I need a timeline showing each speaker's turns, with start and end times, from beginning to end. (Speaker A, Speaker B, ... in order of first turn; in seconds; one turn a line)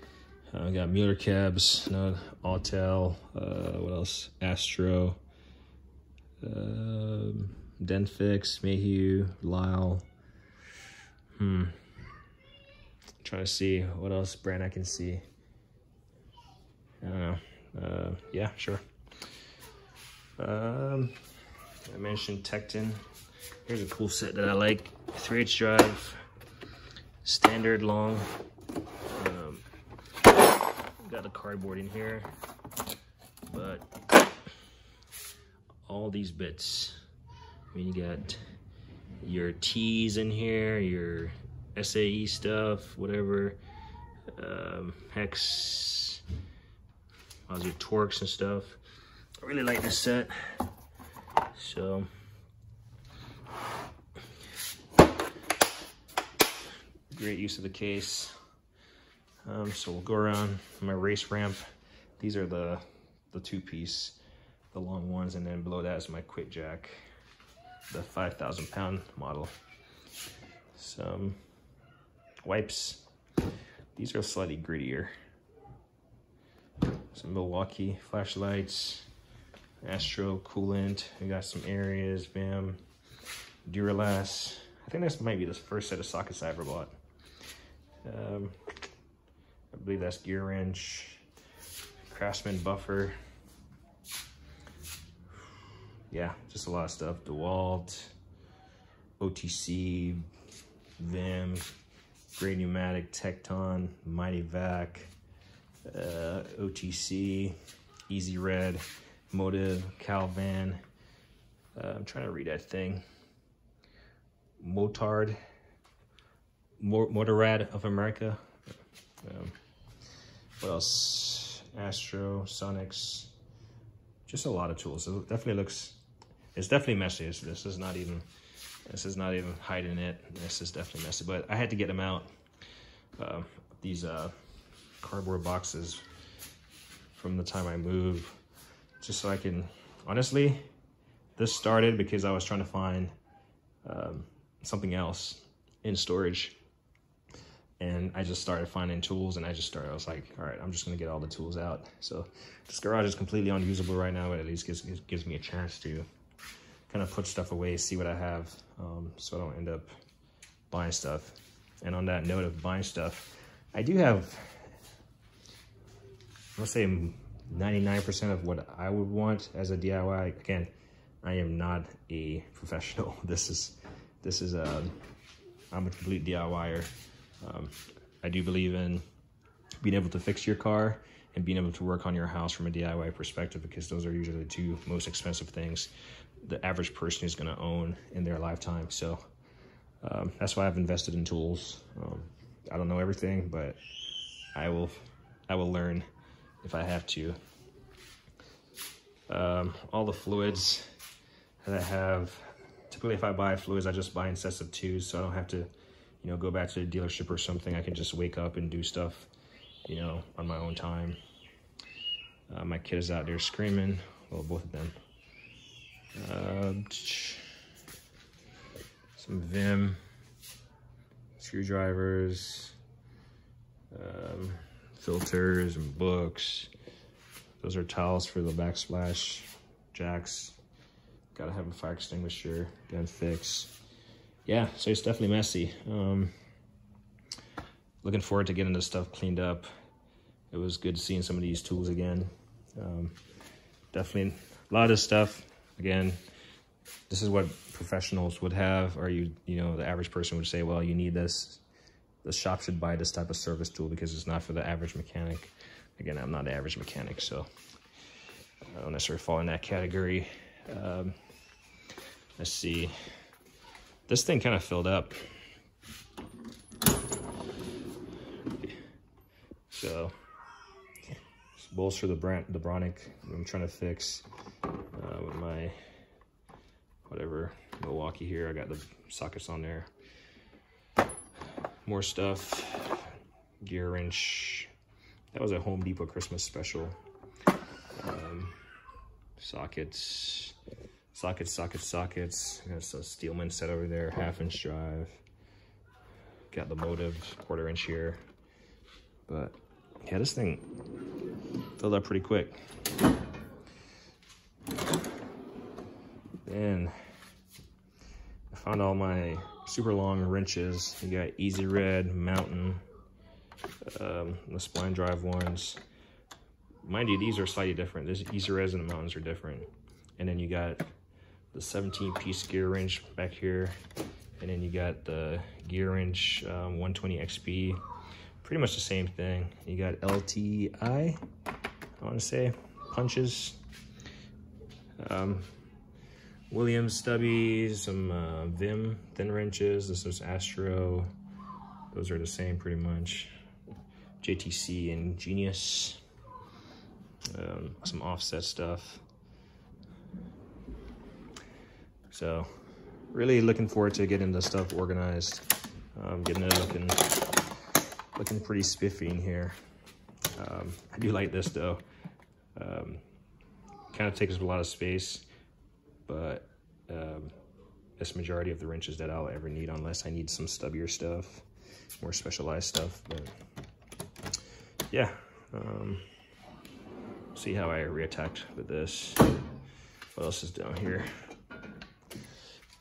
Speaker A: 0.5-5.2
Speaker A: 6.4-10.1
Speaker A: 11.3-11.8
Speaker A: 13.2-15.2
Speaker A: 17.0-18.8
Speaker A: 20.4-21.3
Speaker A: 21.9-23.1
Speaker A: 23.6-26.2
Speaker A: 27.2-28.4
Speaker A: 29.1-29.6
Speaker A: 31.0-32.3
Speaker A: 33.5-33.9
Speaker A: 35.9-37.0
Speaker A: 37.7-38.4
Speaker A: 39.2-43.6
Speaker A: 44.3-46.2
Speaker A: 47.5-48.8
Speaker A: 49.4-50.7
Speaker A: 51.5-52.1
Speaker A: 57.1-58.4
Speaker A: 59.5-61.6
Speaker A: 62.2-64.2
Speaker A: 64.7-67.0
Speaker A: 67.9-69.5
Speaker A: 70.8-71.4
Speaker A: 72.4-73.1
Speaker A: 74.0-75.1
Speaker A: 77.1-79.1
Speaker A: 79.8-82.8
Speaker A: 83.7-87.0
Speaker A: 88.0-88.6
Speaker A: 89.7-91.2
Speaker A: 92.1-93.2
Speaker A: 96.1-98.1
Speaker A: 99.2-100.3
Speaker A: 101.0-101.7
Speaker A: 102.3-105.1
Speaker A: 105.8-107.6
Speaker A: 108.1-110.8
Speaker A: 111.8-113.0
Speaker A: 114.6-115.4
Speaker A: 116.8-118.6
Speaker A: 119.2-119.6
Speaker A: 120.6-123.3
Speaker A: 124.3-126.0
Speaker A: 126.5-128.3
Speaker A: 128.9-132.3
Speaker A: 133.2-134.3
Speaker A: 135.0-136.0
Speaker A: 137.1-138.4
Speaker A: 139.0-140.7
Speaker A: 141.4-143.1
Speaker A: 143.8-146.6
Speaker A: 147.8-156.1
Speaker A: 156.9-159.9
Speaker A: 160.7-164.7
Speaker A: 166.6-170.7
Speaker A: 171.2-175.0
Speaker A: 175.7-179.0
Speaker A: 179.8-189.2
Speaker A: 190.0-193.8
Speaker A: 194.5-196.1
Speaker A: 196.6-197.4
Speaker A: 199.3-200.9
Speaker A: 201.6-205.7
Speaker A: 206.2-209.3
Speaker A: 209.9-211.2
Speaker A: 212.5-215.0
Speaker A: 216.2-217.5
Speaker A: 219.2-220.0
Speaker A: 221.4-222.8
Speaker A: 223.9-226.7
Speaker A: 227.6-230.6
Speaker A: 231.3-233.8
Speaker A: 234.5-236.3
Speaker A: 238.0-239.7
Speaker A: 240.5-243.2
Speaker A: 243.9-246.2
Speaker A: 247.1-251.6
Speaker A: 252.2-257.5
Speaker A: 258.7-261.2
Speaker A: 262.4-262.9
Speaker A: 264.1-265.3
Speaker A: 269.7-270.2
Speaker A: 271.6-274.3
Speaker A: 274.9-275.8
Speaker A: 277.1-279.9
Speaker A: 281.9-284.7
Speaker A: 285.3-287.0
Speaker A: 288.0-288.6
Speaker A: 289.4-290.6
Speaker A: 291.1-295.2
Speaker A: 296.5-298.2
Speaker A: 299.3-300.6
Speaker A: 301.8-302.6
Speaker A: 306.4-306.9
Speaker A: 308.5-312.9
Speaker A: 313.9-315.8
Speaker A: 316.8-320.9
Speaker A: 321.5-323.8
Speaker A: 324.4-327.8
Speaker A: 328.4-331.2
Speaker A: 332.0-333.6
Speaker A: 335.0-335.5
Speaker A: 336.5-341.1
Speaker A: 341.9-343.3
Speaker A: 344.2-346.0
Speaker A: 347.3-349.0
Speaker A: 352.1-352.6
Speaker A: 353.1-357.1
Speaker A: 358.2-359.6
Speaker A: 360.4-361.8
Speaker A: 362.6-363.0
Speaker A: 363.9-365.3
Speaker A: 366.1-367.3
Speaker A: 368.0-371.4
Speaker A: 372.0-373.4
Speaker A: 374.9-376.1
Speaker A: 377.4-379.3
Speaker A: 380.1-381.1